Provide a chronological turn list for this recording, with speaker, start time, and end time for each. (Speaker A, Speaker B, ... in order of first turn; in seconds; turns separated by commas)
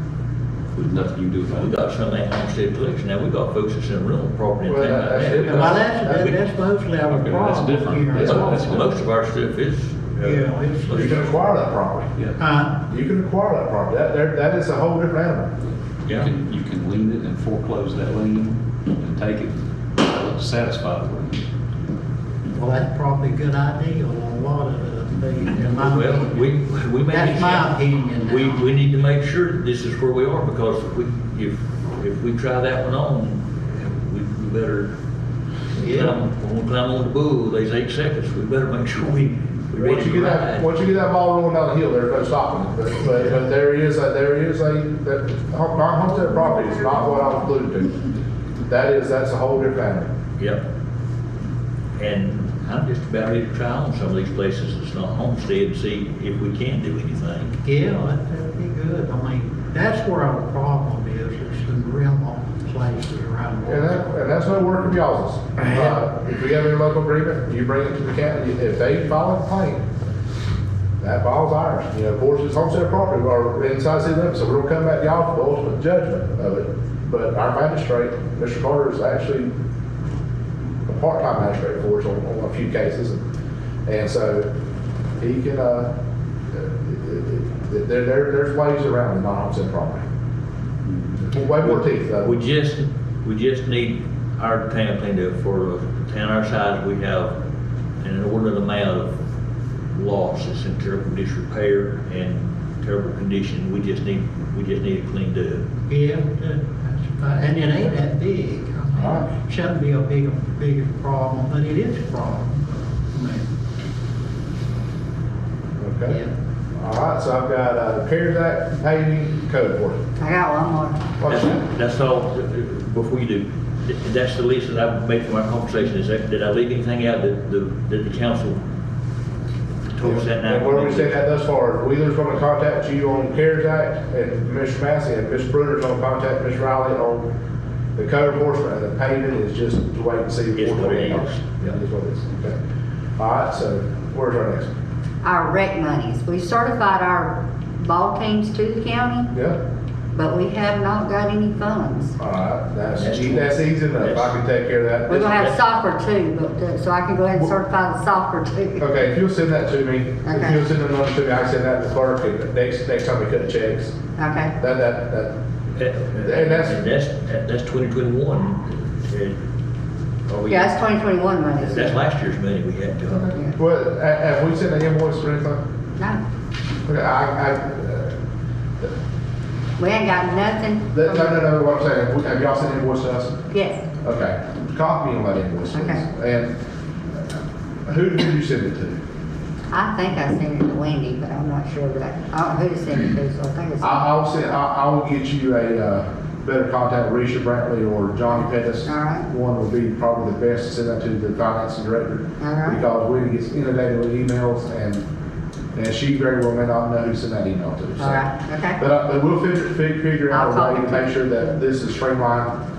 Speaker A: 0.8-1.8, Speaker B: 1.5-6.4, Speaker C: 4.7-6.3, Speaker D: 5.3-8.9, Speaker A: 7.1-9.0, Speaker C: 8.1-8.4, Speaker B: 8.2-11.3, Speaker D: 10.2-11.4, Speaker C: 10.9-12.1, Speaker D: 12.4-12.8, Speaker C: 12.9-15.5, Speaker A: 16.1-21.5, Speaker D: 22.5-26.6, Speaker B: 25.5-27.7, Speaker D: 27.1-28.6, Speaker B: 28.2-35.0, Speaker B: 35.7-40.7, Speaker D: 35.8-36.2, Speaker C: 39.7-48.0, Speaker C: 48.6-50.1, Speaker B: 50.4-50.6, Speaker B: 52.0-57.6, Speaker D: 57.6-64.1, Speaker C: 63.7-69.9, Speaker D: 65.6-66.0, Speaker C: 71.0-79.5, Speaker C: 80.9-83.2, Speaker C: 83.9-84.5, Speaker C: 85.2-85.9, Speaker C: 86.5-90.0, Speaker A: 90.8-91.3, Speaker C: 91.3-92.4, Speaker B: 92.2-97.4, Speaker B: 98.0-99.2, Speaker B: 99.9-105.6, Speaker D: 105.9-113.4, Speaker C: 109.0-109.3, Speaker C: 115.8-116.2, Speaker D: 116.1-116.3, Speaker C: 116.8-120.0, Speaker E: 120.2-121.0, Speaker C: 121.2-121.6, Speaker B: 121.3-128.6, Speaker B: 129.9-131.2, Speaker C: 130.0-137.3, Speaker C: 138.0-142.6, Speaker B: 140.6-141.4, Speaker C: 143.2-144.7, Speaker E: 145.2-149.3, Speaker C: 149.3-149.6, Speaker E: 150.1-152.2, Speaker C: 152.2-155.4, Speaker B: 153.0-154.4, Speaker E: 155.1-158.9, Speaker B: 155.2-155.6, Speaker C: 158.8-164.0, Speaker E: 160.2-160.6, Speaker E: 164.2-164.6, Speaker C: 164.6-165.3, Speaker B: 165.8-169.4, Speaker C: 166.2-166.8, Speaker B: 170.3-170.8, Speaker E: 170.5-172.0, Speaker B: 171.6-173.3, Speaker C: 173.1-175.6, Speaker C: 176.9-178.1, Speaker E: 179.8-181.5, Speaker C: 180.9-183.4, Speaker E: 183.5-183.9, Speaker C: 184.0-186.6, Speaker E: 185.7-186.0, Speaker C: 187.9-189.0, Speaker E: 189.7-194.1, Speaker C: 193.8-205.1, Speaker E: 198.8-199.3, Speaker E: 202.4-202.8, Speaker C: 205.8-212.6, Speaker E: 208.0-208.8, Speaker E: 210.3-211.5